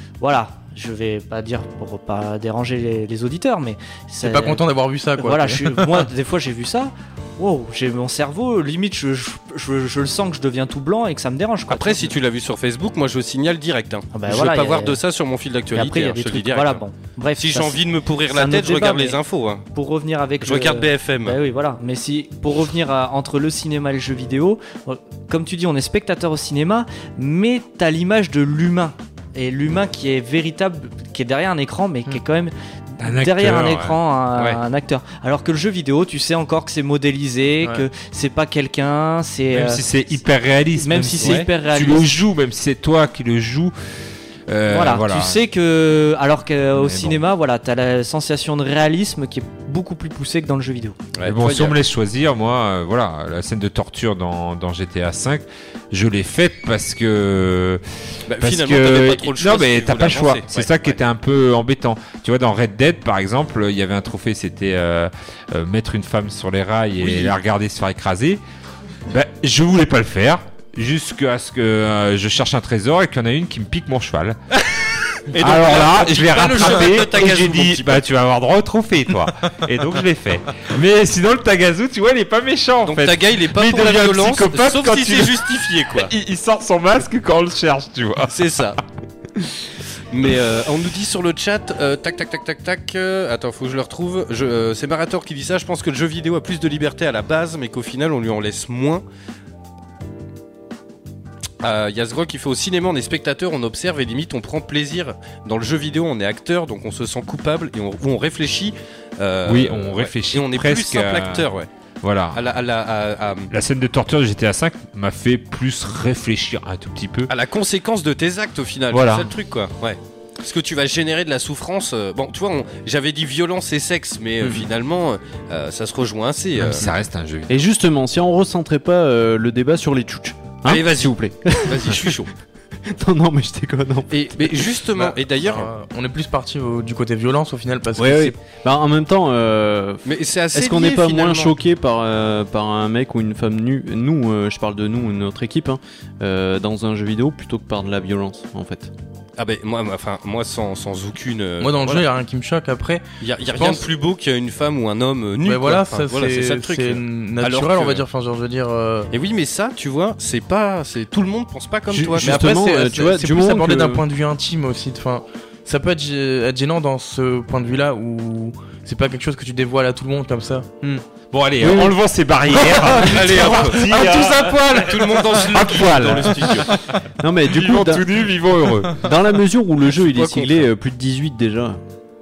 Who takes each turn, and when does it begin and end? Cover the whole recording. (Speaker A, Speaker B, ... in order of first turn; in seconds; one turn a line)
Speaker A: 0.2-4.6
Speaker B: 4.2-6.0
Speaker A: 5.2-12.1
Speaker C: 11.7-16.8
Speaker A: 14.1-15.0
Speaker A: 15.7-17.8
Speaker C: 17.4-19.6
Speaker A: 18.3-19.2
Speaker A: 19.7-39.9
Speaker C: 20.4-21.4
Speaker D: 33.0-34.0
Speaker D: 39.5-43.7
Speaker A: 40.8-42.1
Speaker D: 44.5-45.4
Speaker A: 44.7-51.0
Speaker D: 46.7-47.2
Speaker C: 51.1-51.8
Speaker D: 51.2-57.8
Speaker C: 58.3-61.0
Speaker D: 58.4-68.4
Speaker C: 67.0-67.3
Speaker D: 69.1-74.4
Speaker C: 74.6-78.0
Speaker D: 75.4-88.3
Speaker C: 82.8-86.1
Speaker C: 88.3-88.8
Speaker C: 90.1-99.0
Speaker C: 101.6-111.7
Speaker D: 109.5-111.5
Speaker D: 112.0-112.4
Speaker C: 112.3-113.5
Speaker D: 113.5-117.3
Speaker C: 117.3-126.9
Speaker D: 118.9-119.3
Speaker D: 126.6-127.6
Speaker E: 127.5-132.2
Speaker C: 130.6-132.3
Speaker E: 132.8-134.6
Speaker C: 134.1-135.7
Speaker B: 134.9-138.3
Speaker E: 137.9-148.9
Speaker C: 140.0-141.5
Speaker C: 149.4-152.0
Speaker B: 151.6-153.9
Speaker C: 153.2-158.0
Speaker B: 155.4-159.1
Speaker C: 159.1-162.4
Speaker E: 161.9-164.0
Speaker B: 162.2-170.8
Speaker D: 171.3-179.1
Speaker E: 171.6-171.9
Speaker C: 172.9-176.8
Speaker E: 177.2-178.3
Speaker E: 178.9-181.8
Speaker C: 179.8-180.7